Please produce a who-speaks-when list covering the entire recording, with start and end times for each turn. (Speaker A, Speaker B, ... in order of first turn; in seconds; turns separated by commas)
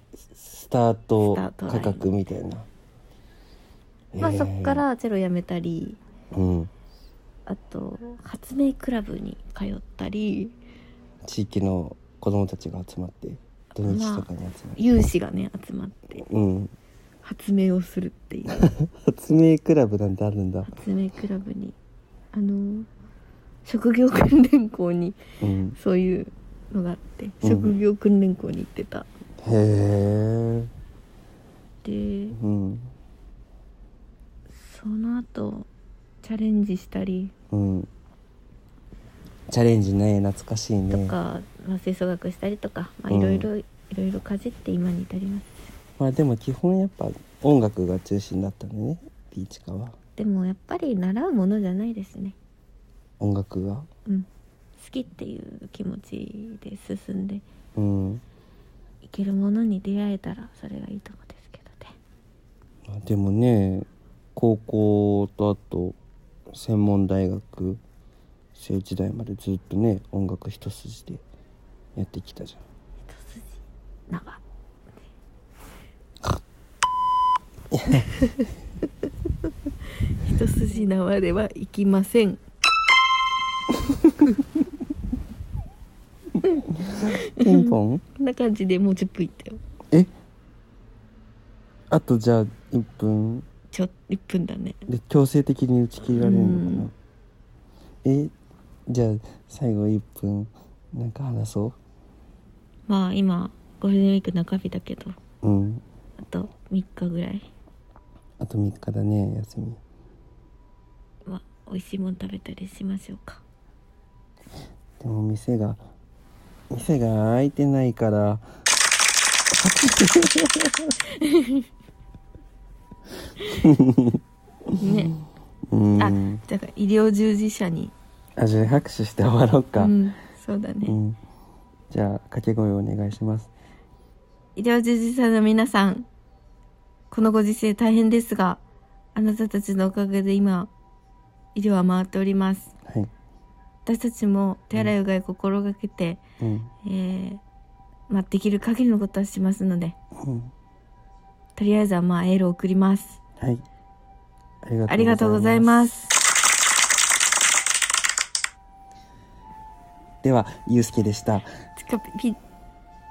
Speaker A: 0.3-2.7, Speaker B: 1.2-2.1, Speaker A: 4.1-4.8, Speaker B: 4.2-6.0, Speaker A: 6.3-6.7, Speaker B: 7.5-10.5, Speaker A: 11.2-14.8, Speaker B: 13.8-16.2, Speaker A: 16.2-16.7, Speaker B: 17.2-18.7, Speaker A: 18.7-20.7, Speaker B: 20.7-21.8, Speaker B: 22.3-22.9, Speaker B: 23.6-25.2, Speaker A: 25.4-25.8, Speaker B: 25.8-29.1, Speaker A: 27.4-27.8, Speaker A: 29.4-30.7, Speaker B: 31.8-32.4, Speaker A: 32.3-32.9, Speaker B: 34.5-35.7, Speaker B: 36.2-37.3, Speaker A: 37.5-37.9, Speaker A: 39.5-41.1, Speaker B: 40.9-45.7, Speaker A: 43.1-43.5, Speaker A: 46.0-50.0, Speaker B: 50.2-52.4, Speaker A: 53.2-53.9, Speaker B: 54.1-57.5, Speaker A: 57.8-58.2, Speaker B: 59.0-61.9, Speaker A: 62.9-66.0, Speaker A: 66.5-67.8, Speaker A: 68.5-71.2, Speaker A: 72.0-72.6, Speaker B: 73.1-73.5, Speaker B: 74.1-74.4, Speaker A: 77.7-78.1, Speaker B: 78.2-78.5, Speaker B: 80.2-82.4, Speaker B: 86.5-89.6, Speaker A: 87.3-88.0, Speaker A: 91.9-93.5, Speaker B: 93.7-94.8, Speaker A: 94.9-96.9, Speaker B: 96.2-96.9, Speaker A: 98.0-98.3, Speaker A: 98.9-101.8, Speaker B: 102.9-105.1, Speaker A: 105.4-105.8, Speaker B: 106.2-107.5, Speaker A: 108.4-109.8, Speaker B: 111.2-113.4, Speaker A: 115.0-115.8, Speaker A: 116.7-118.4, Speaker A: 119.5-120.9, Speaker B: 121.1-121.7, Speaker A: 123.6-124.2, Speaker B: 124.8-125.1, Speaker A: 125.7-126.4, Speaker B: 126.0-128.0, Speaker A: 128.4-130.0, Speaker B: 129.8-131.0, Speaker A: 130.8-131.2, Speaker A: 131.9-133.5, Speaker B: 134.6-136.1, Speaker B: 137.1-138.6, Speaker B: 139.1-140.7, Speaker B: 141.5-142.7, Speaker B: 143.8-146.2, Speaker A: 146.4-146.7, Speaker B: 146.8-147.4, Speaker B: 148.1-150.0, Speaker A: 150.2-150.5, Speaker B: 151.6-153.2, Speaker A: 154.6-155.9, Speaker B: 154.9-156.1, Speaker A: 160.2-161.5, Speaker B: 161.8-162.4